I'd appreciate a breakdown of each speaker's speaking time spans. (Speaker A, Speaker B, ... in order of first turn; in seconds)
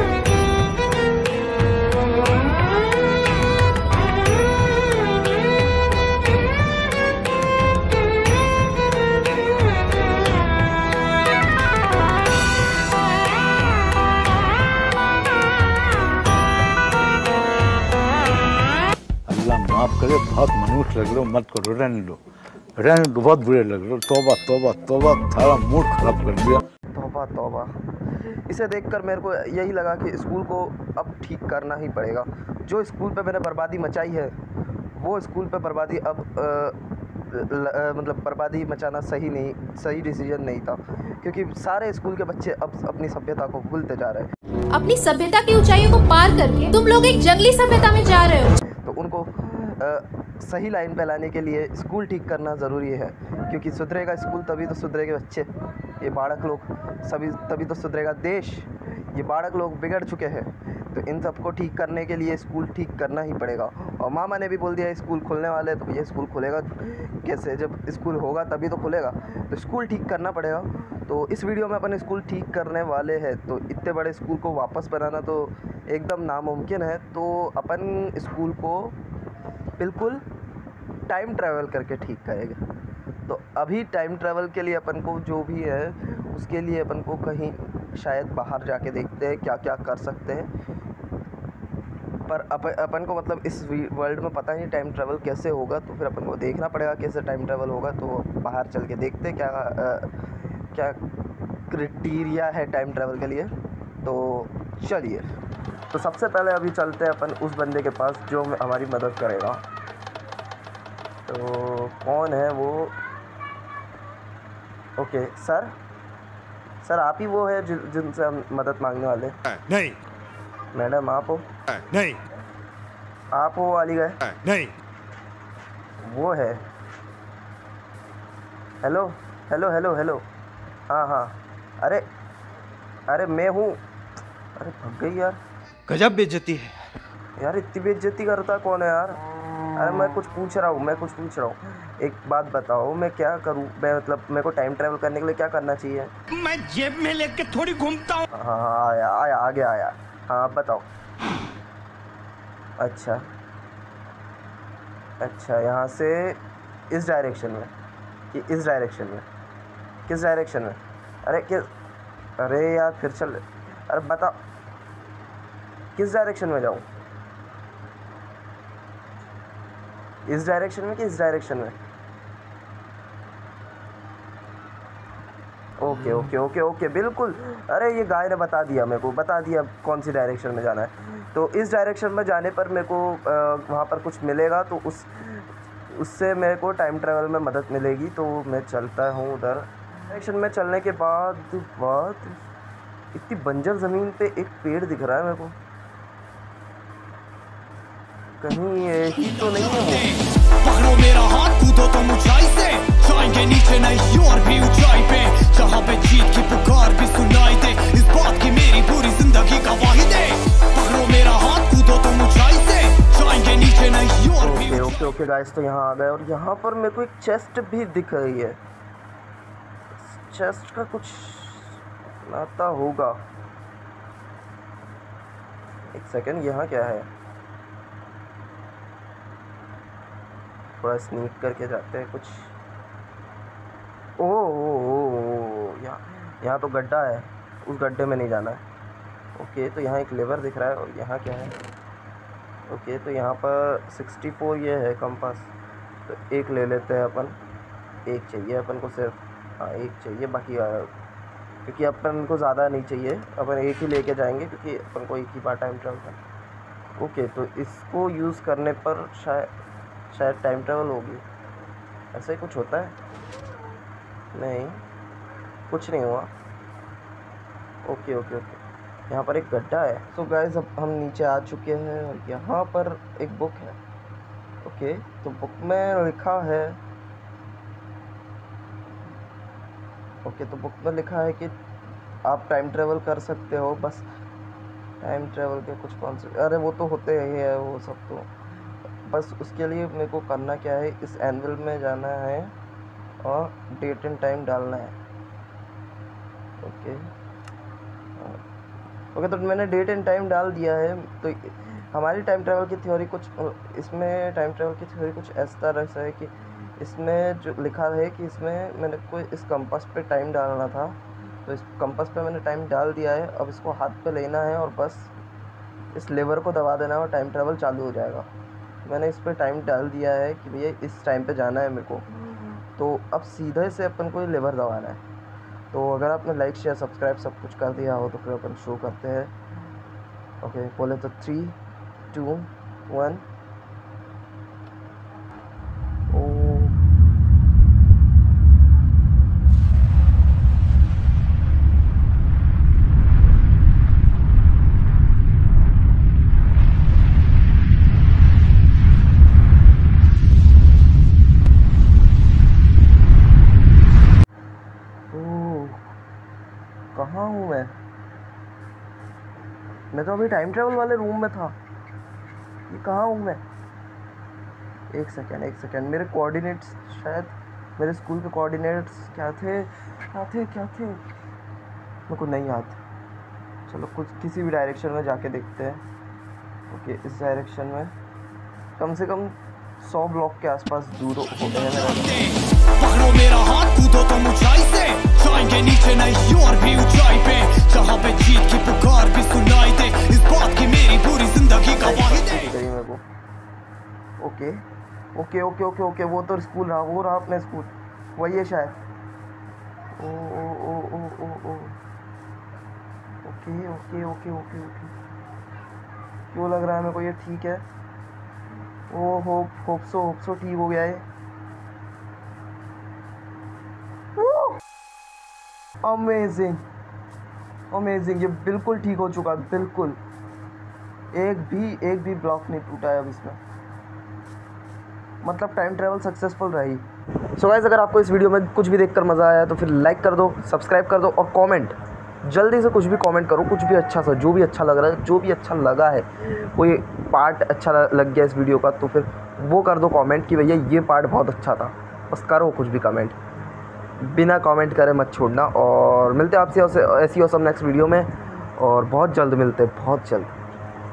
Speaker A: 19.3-22.2, 22.8-26.6
Speaker B: 26.9-27.8, 28.5-34.3, 35.0-44.3, 48.6-79.0, 79.8-80.2, 81.1-82.6, 83.3-90.5, 92.3-100.2, 100.7-101.0, 101.7-105.3, 105.9-109.6, 111.3-113.0, 115.0-115.7, 116.8-119.4, 120.7-121.5, 123.3-124.3, 126.0-126.6, 128.8-130.2, 130.9-132.1, 133.1-133.8, 134.6-135.4, 137.4-146.1, 148.3-150.9, 152.8-153.3, 155.2-157.7, 158.3-159.3, 160.1-161.7, 162.4-164.4, 165.9-166.9, 170.3-171.8, 175.8-192.4, 193.1-195.6, 198.4-200.1, 214.4-218.6, 220.0-223.2, 225.9-227.1, 230.8-232.5, 234.2-238.6, 239.4-241.6, 242.7-245.5, 246.1-247.4, 248.1-250.9, 251.7-256.2, 257.0-259.5, 260.1-261.2, 262.1-263.0, 264.3-264.8, 265.7-266.3, 267.9-273.8, 274.6-276.8, 280.2-281.5, 282.2-284.1, 285.0-288.3, 289.1-292.5, 293.2-294.9, 296.6-297.1, 299.1-315.1, 315.9-318.3, 318.9-325.0, 325.7-329.3, 330.4-331.6, 332.1-333.2, 336.1-336.8, 355.1-355.9, 356.9-357.8, 359.9-361.6, 362.7-363.4, 364.9-371.0, 372.1-372.8, 373.7-375.8, 376.7-377.9, 378.8-382.2, 391.7-393.0, 394.2-394.6, 395.1-398.8, 400.0-401.8, 403.2-405.0, 406.3-407.6, 408.9-411.1, 414.2-414.6, 415.8-416.6, 417.7-420.0, 421.1-423.4, 425.2-426.8, 427.4-443.2, 444.0-450.4
Speaker C: 44.7-48.6
Speaker D: 119.5-120.0, 121.7-122.2, 124.3-124.8, 135.9-136.7, 146.3-148.3
Speaker E: 199.6-215.0, 381.9-392.5